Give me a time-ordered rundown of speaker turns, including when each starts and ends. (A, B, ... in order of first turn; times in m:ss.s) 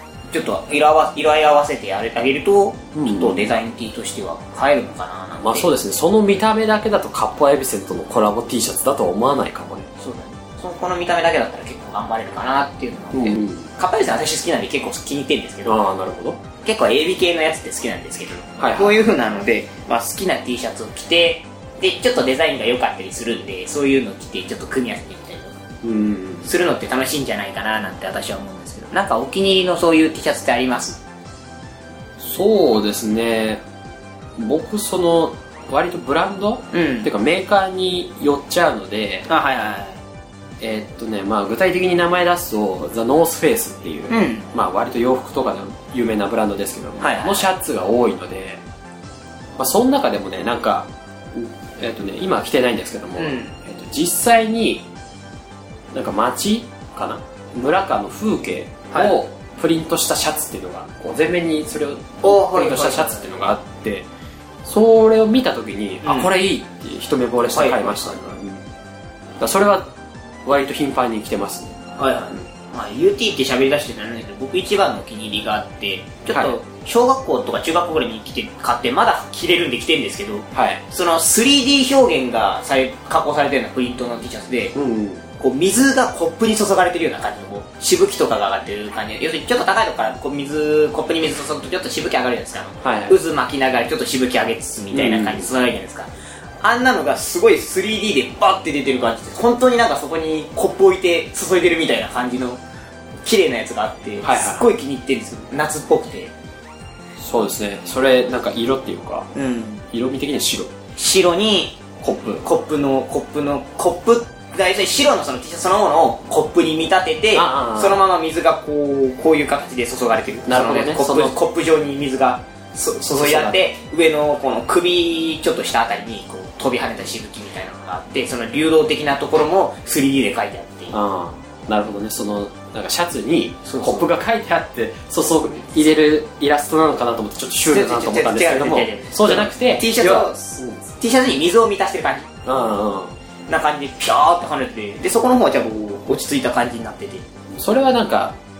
0:00.3-0:05.7 A
0:03.0-0:03.5 B
0:05.4-0:09.9 B
0:10.0-0:15.8 A
0:13.1-0:13.7 B
0:15.6-0:16.4 B
0:16.6-0:25.6 A
0:18.6-0:19.0 B
0:25.8-0:26.5 B
0:26.4-0:31.0 A
0:32.2-0:33.6 B
0:34.4-0:39.3 B
0:36.7-0:37.1 A
0:39.3-0:40.0 A
0:40.6-0:48.6 B
0:44.1-0:44.5 A
0:47.0-0:47.4 A
0:49.6-0:54.9 B
0:53.2-0:53.5 A
0:55.9-1:04.1 B
1:02.2-1:03.3 A
1:04.6-1:08.6 B
1:06.0-1:06.3 A
1:07.5-1:08.4 A
1:09.4-1:09.9 B
1:10.4-1:11.7 B
1:12.0-1:24.8 A
1:20.5-1:20.8 B
1:24.8-1:25.2 B
1:25.4-1:36.1 A
1:32.8-1:33.2 B
1:34.9-1:35.5 B
1:36.6-1:42.6 A
1:43.2-1:46.3 A
1:44.2-1:44.6 B
1:47.2-1:49.3 B
1:49.4-1:49.8 A
1:49.9-1:50.7 B
1:51.0-1:51.8 A
1:52.0-1:52.4 B
1:52.4-2:11.0 A
1:57.3-1:58.0 B
2:00.5-2:01.4 B
2:03.1-2:03.6 B
2:10.9-2:20.8 B
2:13.6-2:14.1 A
2:17.6-2:22.3 A
2:22.4-2:23.2 B
2:23.5-2:27.2 A
2:27.5-2:28.4 B